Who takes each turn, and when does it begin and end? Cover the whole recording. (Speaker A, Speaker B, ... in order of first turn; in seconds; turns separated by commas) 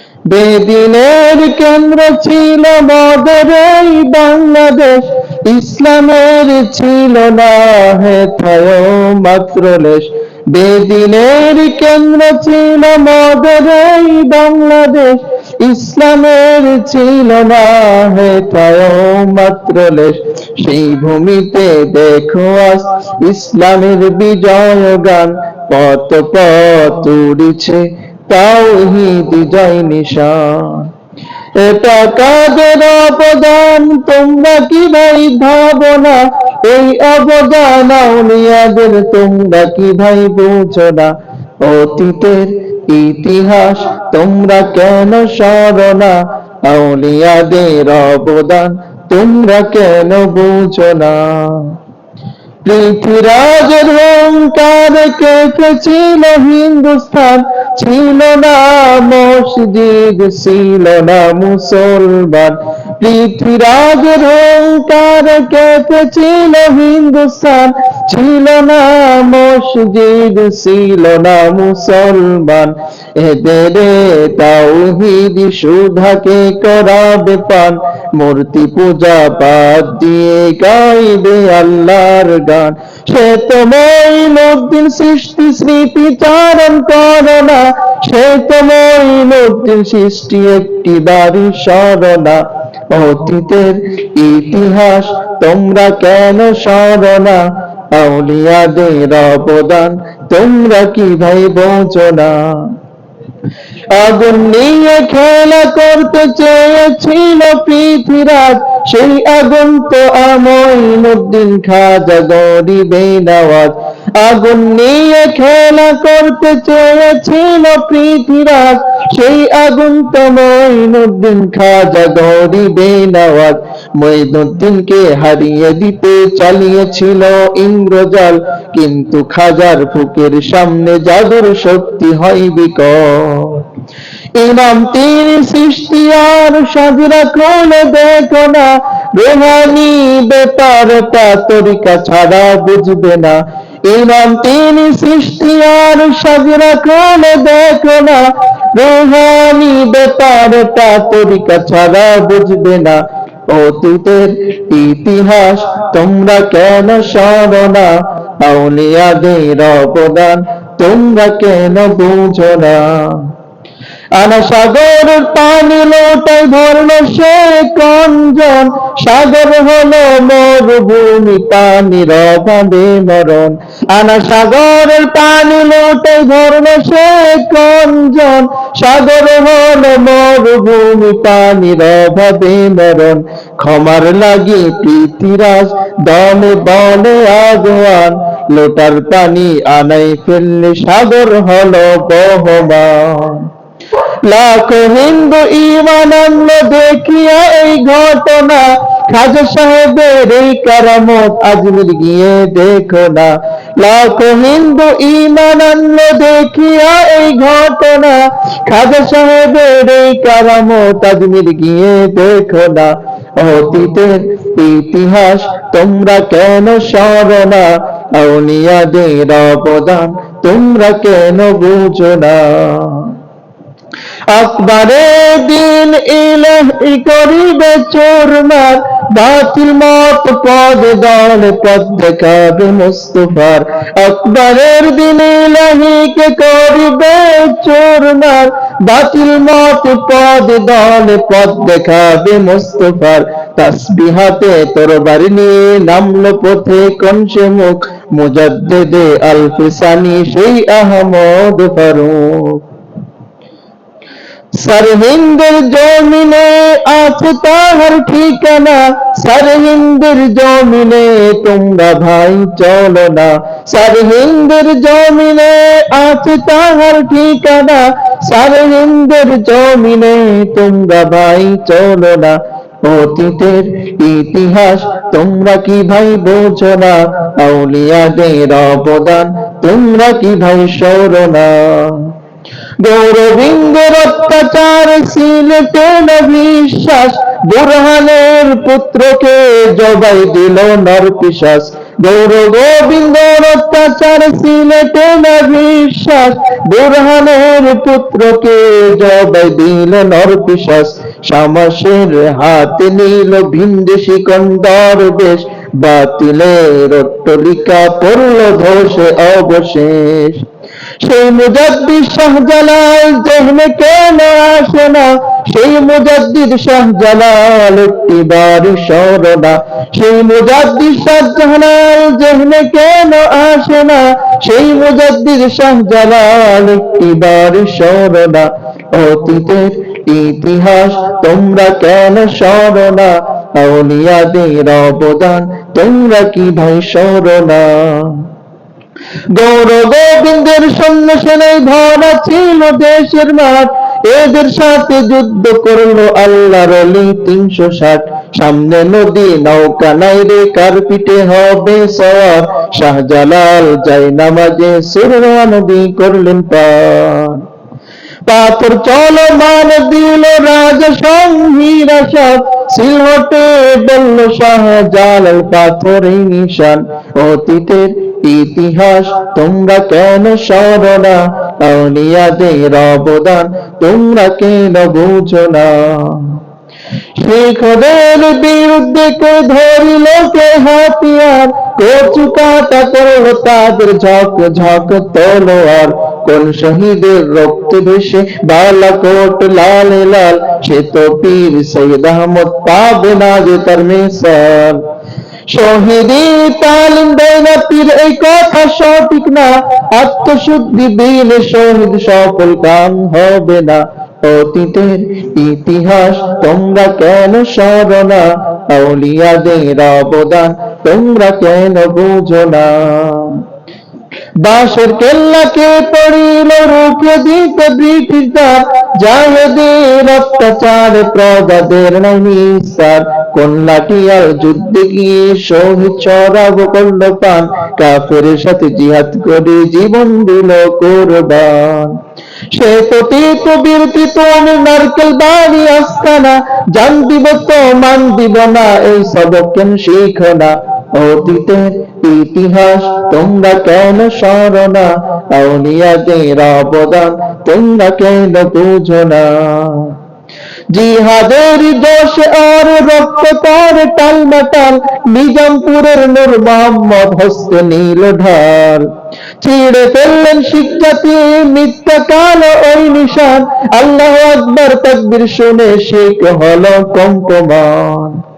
Speaker A: 0.3-30.9, Speaker A: 31.6-51.8, Speaker A: 52.6-102.8, Speaker A: 103.9-133.7, Speaker A: 134.4-163.3, Speaker A: 164.1-193.5, Speaker A: 194.2-223.2, Speaker A: 224.3-252.6, Speaker A: 254.6-282.1, Speaker A: 282.8-310.5, Speaker A: 311.0-338.3, Speaker A: 339.3-357.4, Speaker A: 358.3-376.4, Speaker A: 377.2-394.8, Speaker A: 395.5-413.4, Speaker A: 414.4-432.0, Speaker A: 432.5-450.0, Speaker A: 450.7-458.9, Speaker A: 459.4-468.2